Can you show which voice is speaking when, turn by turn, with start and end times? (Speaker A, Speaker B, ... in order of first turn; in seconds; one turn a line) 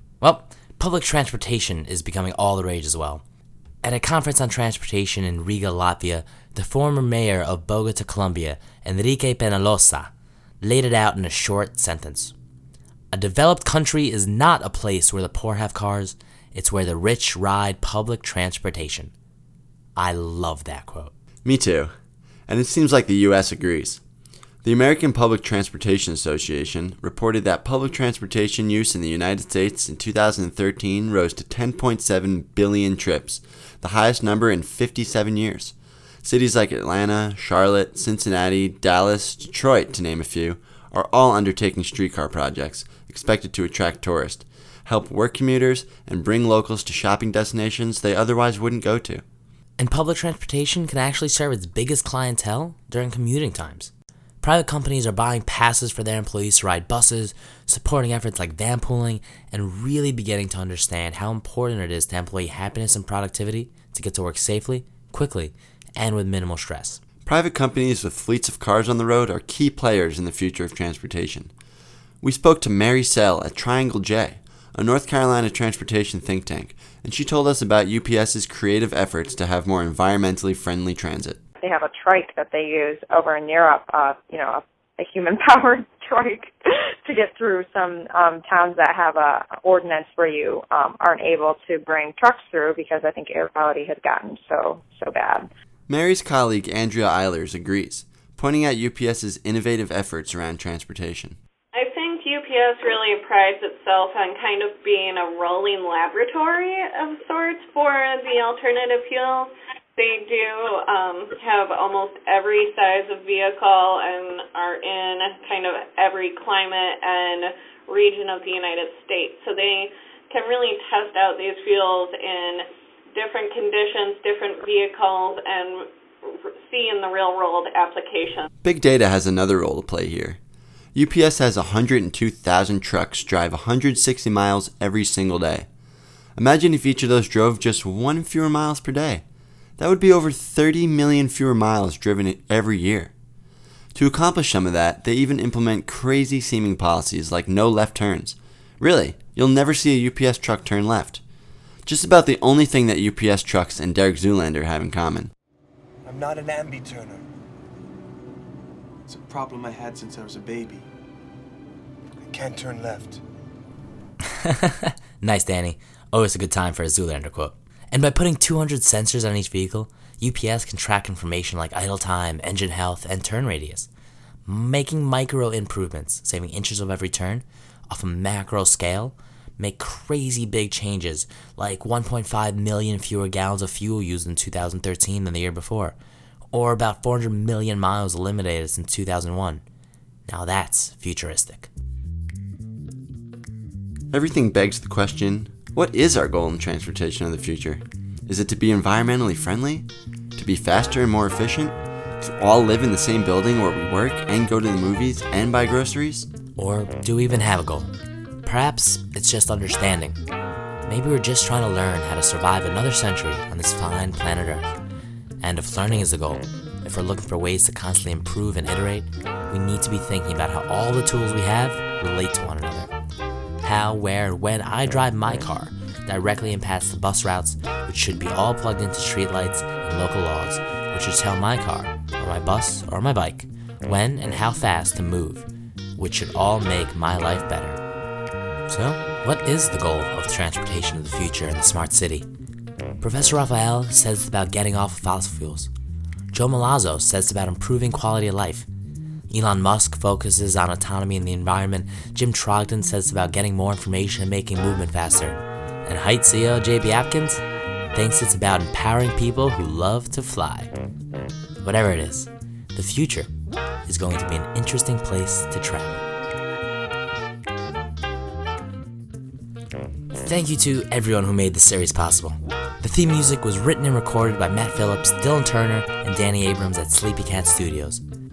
Speaker A: 0.2-3.2
Speaker A: 3.8-10.1
Speaker A: 10.6-12.3
Speaker A: 13.1-19.1
Speaker A: 19.9-21.1
Speaker B: 21.4-21.9
Speaker B: 22.5-24.0
Speaker B: 24.6-49.2
Speaker A: 49.8-67.0
Speaker B: 67.2-71.5
Speaker B: 72.2-81.4
Speaker C: 81.6-95.5
Speaker B: 95.9-101.4
Speaker D: 101.7-128.5
Speaker B: 128.6-130.4
Speaker B: 130.9-135.7
Speaker B: 136.4-139.2
Speaker B: 139.8-143.1
Speaker B: 143.9-151.2
Speaker B: 151.8-155.3
Speaker E: 156.0-157.2
Speaker E: 159.1-160.8
Speaker E: 162.3-163.2
Speaker A: 164.3-173.9
Speaker A: 174.4-186.0
Speaker A: 186.5-189.6
Speaker A: 190.3-191.7
Speaker B: 194.1-206.3
Speaker A: 206.6-207.9
Speaker A: 208.4-210.2
Speaker A: 210.8-214.7
Speaker A: 215.4-222.9
Speaker A: 223.6-235.4
Speaker A: 236.0-237.8
Speaker A: 238.7-242.3
Speaker A: 243.0-245.7
Speaker A: 246.3-248.7
Speaker A: 249.3-257.4
Speaker A: 257.9-260.7
Speaker A: 261.6-263.3
Speaker A: 263.9-266.0
Speaker A: 270.2-278.0